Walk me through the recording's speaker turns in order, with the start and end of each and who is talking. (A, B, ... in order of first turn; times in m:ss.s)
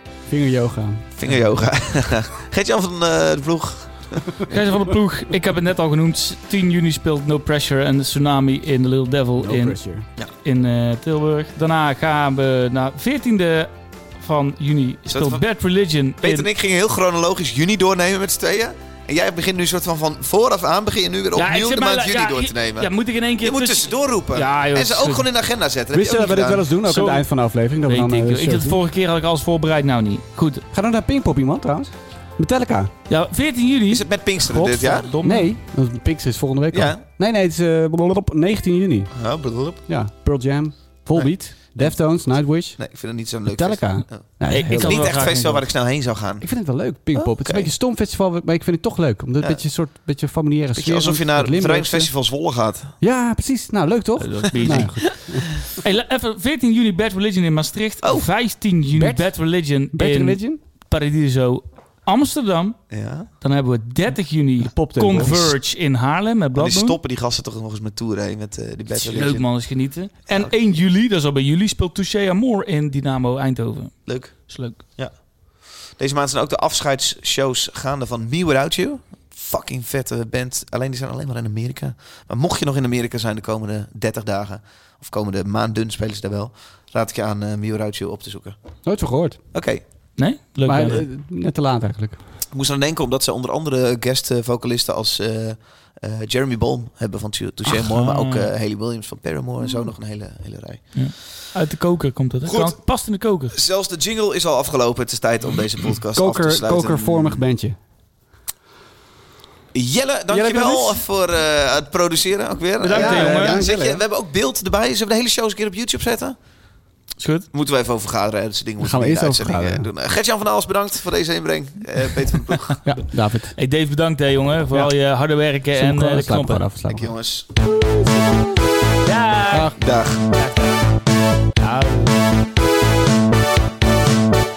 0:00.3-0:01.4 A
0:01.2-0:04.3 B
0:04.5-0:09.8 C
0:09.4-0:10.0 A
0:10.4-0:16.5 C
0:15.1-0:15.4 B
0:16.2-0:22.9 B
0:21.3-0:25.2 C
0:23.4-0:26.7 B
0:25.9-0:28.8 A
0:26.8-0:27.2 C
0:27.9-0:30.6 C
0:30.7-0:32.9 A
0:33.1-0:35.5 C
0:33.9-0:35.1 B
0:35.2-0:39.1 A
0:36.7-0:37.0 B
0:39.1-0:39.8 B
0:39.8-0:42.8 A
0:41.1-0:42.0 B
0:42.8-0:46.5 B
0:43.5-0:45.6 A
0:44.5-0:45.5 C
0:46.4-0:52.1 A
0:47.1-0:47.7 B
0:50.8-0:52.9 B
0:53.0-0:55.5 A
0:54.2-1:02.8 C
0:58.0-0:58.3 B
0:58.9-0:59.3 A
0:59.9-1:00.6 A
1:02.9-1:03.3 B
1:03.4-1:07.0 C
1:04.6-1:05.5 A
1:06.5-1:09.4 B
1:08.9-1:14.8 C
1:14.0-1:15.1 B
1:16.0-1:28.6 B
1:28.8-1:29.4 A
1:29.5-1:29.8 B
1:30.2-1:31.0 C
1:30.6-1:32.2 A
1:32.5-1:40.9 B
1:37.7-1:38.5 C
1:40.9-1:43.6 C
1:42.5-1:42.8 B
1:43.5-1:47.4 B
1:46.1-1:47.8 A
1:49.7-1:56.4 B
1:50.3-1:51.0 A
1:52.8-1:53.6 C
1:52.8-1:54.0 A
1:57.2-1:57.5 C
1:57.5-2:02.8 B
1:58.8-1:59.9 A
2:02.8-2:03.5 A
2:03.6-2:06.6 C
2:05.8-2:07.1 A
2:06.9-2:07.5 B
2:07.6-2:08.5 A
2:09.0-2:10.8 C
2:09.8-2:10.2 B
2:11.6-2:12.2 A